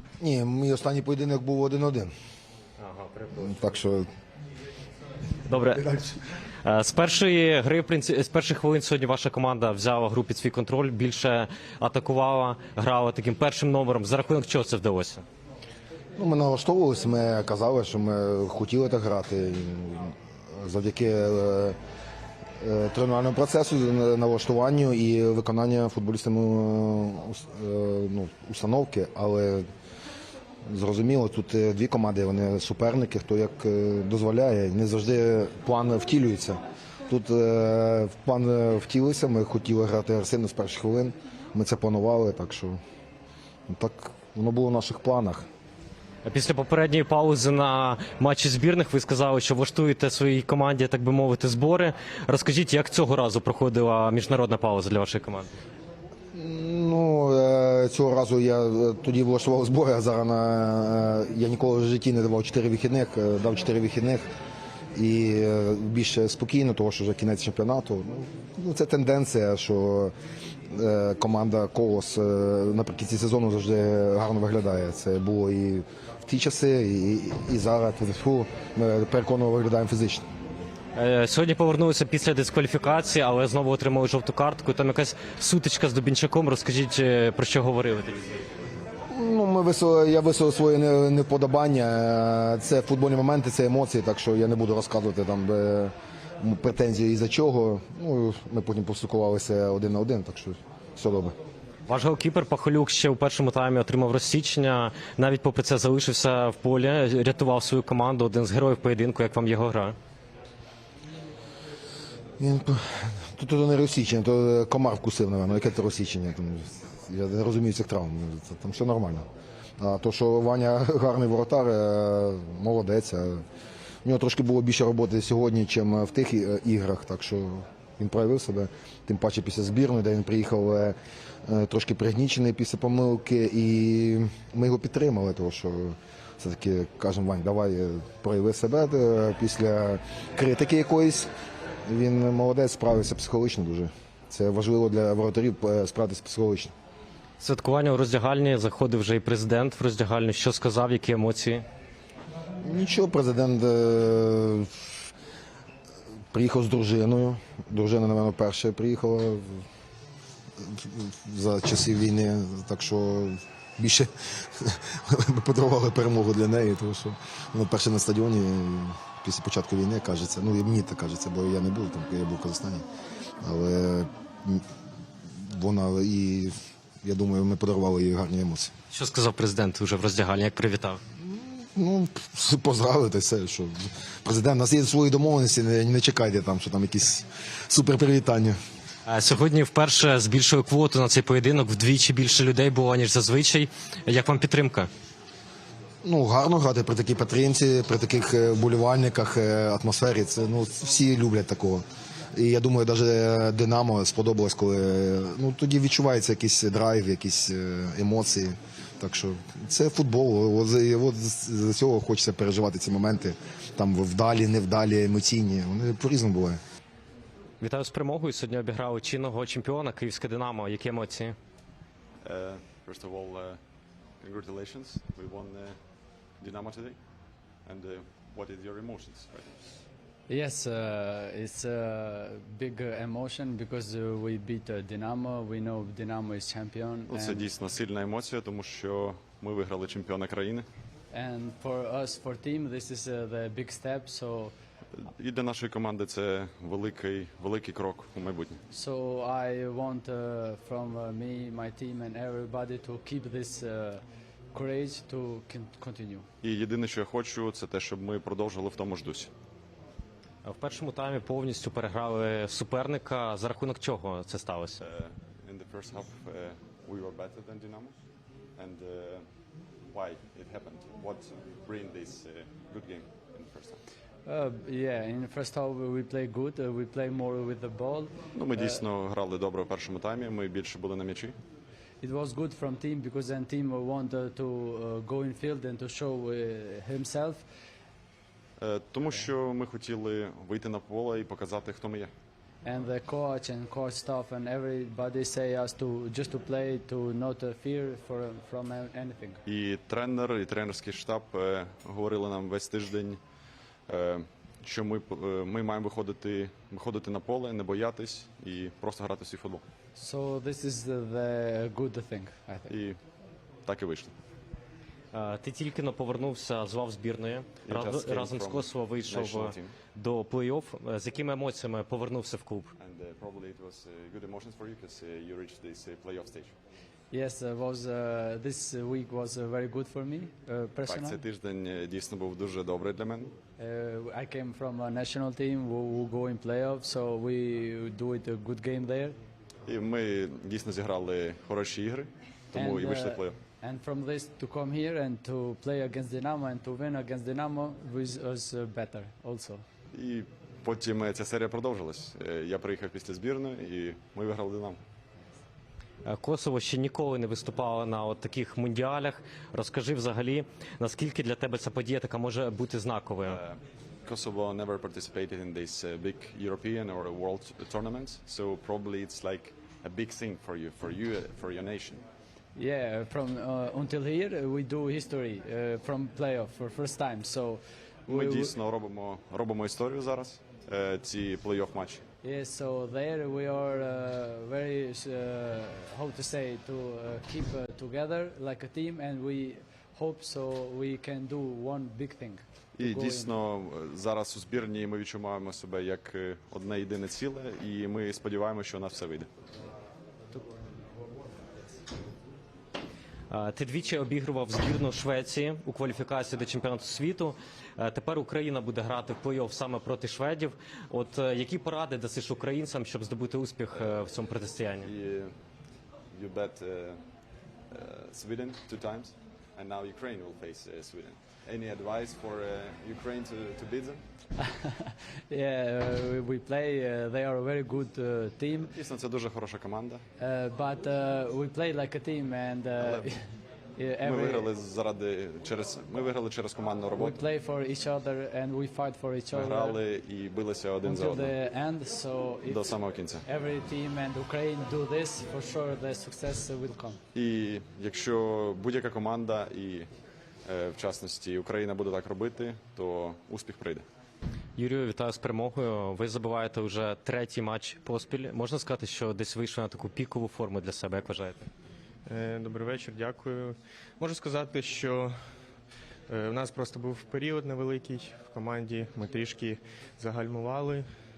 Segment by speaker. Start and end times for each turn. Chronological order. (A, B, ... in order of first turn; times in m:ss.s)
0:00.2-0:02.1 A
0:02.8-0:03.6 B
0:03.3-0:04.1 A
0:05.5-0:06.0 B
0:06.6-0:15.2 B
0:16.2-0:21.8 A
0:22.6-0:29.6 A
0:30.6-0:42.8 A
0:43.7-0:45.4 A
0:46.2-0:55.5 B
0:56.3-1:04.3 A
1:04.9-1:10.1 A
1:10.7-1:20.2 A
1:20.9-1:28.4 B
1:29.1-1:41.3 A
1:41.9-1:49.9 B
1:52.4-1:59.2 A
1:59.8-2:03.4 A
2:04.0-2:10.9 A
2:11.4-2:21.3 A
2:21.8-2:26.7 A
2:27.4-2:31.6 B
2:32.6-2:34.9 A
2:36.3-2:39.6 A
2:40.6-2:52.8 A
2:53.4-2:54.6 A
2:55.4-2:58.7 A
2:58.9-3:01.0 B
3:01.2-3:08.6 A
3:09.0-3:14.9 B
3:16.0-3:36.6 A
3:37.6-3:41.3 B
3:42.2-3:43.6 C
3:44.2-3:45.8 C
3:46.4-3:47.0 C
3:47.6-3:49.6 C
3:50.3-3:57.5 D
3:57.1-4:00.6 C
4:01.1-4:04.5 D
4:05.0-4:08.6 C
4:08.7-4:16.3 D
4:16.4-4:19.3 C
4:20.4-4:24.8 B
4:24.8-4:28.0 C
4:28.6-4:29.2 C
4:29.9-4:33.8 C
4:34.2-4:38.8 D
4:38.3-4:41.3 C
4:42.0-4:47.4 D
4:48.6-4:52.1 C
4:52.6-4:59.4 D
4:59.4-5:03.2 C
5:03.9-5:09.6 C
5:09.9-5:12.7 D
5:12.7-5:13.0 C
5:13.6-5:14.1 C
5:15.1-5:22.7 B
5:17.6-5:19.7 C
5:22.8-5:26.5 C
5:27.1-5:31.2 D
5:30.8-5:33.3 C
5:33.6-5:39.2 D
5:39.6-5:43.3 C
5:42.5-5:49.6 D
5:49.9-5:54.8 C
5:56.0-6:03.4 B
6:03.3-6:12.0 C
6:12.5-6:18.5 D
6:18.1-6:22.0 C
6:22.2-6:33.3 D
6:32.8-6:39.3 C
6:43.3-6:54.9 B
6:54.8-6:55.3 C
6:56.1-6:57.0 C
6:57.7-7:04.0 C
7:04.4-7:08.7 D
7:08.7-7:10.0 C
7:10.2-7:14.5 D
7:12.8-7:13.1 C
7:14.0-7:17.2 C
7:16.9-7:19.8 D
7:19.3-7:21.3 C
7:20.8-7:27.0 D
7:22.5-7:23.2 C
7:27.1-7:29.9 C
7:30.4-7:33.8 C
7:34.6-7:41.5 B
7:42.0-7:45.1 E
7:46.1-7:50.9 E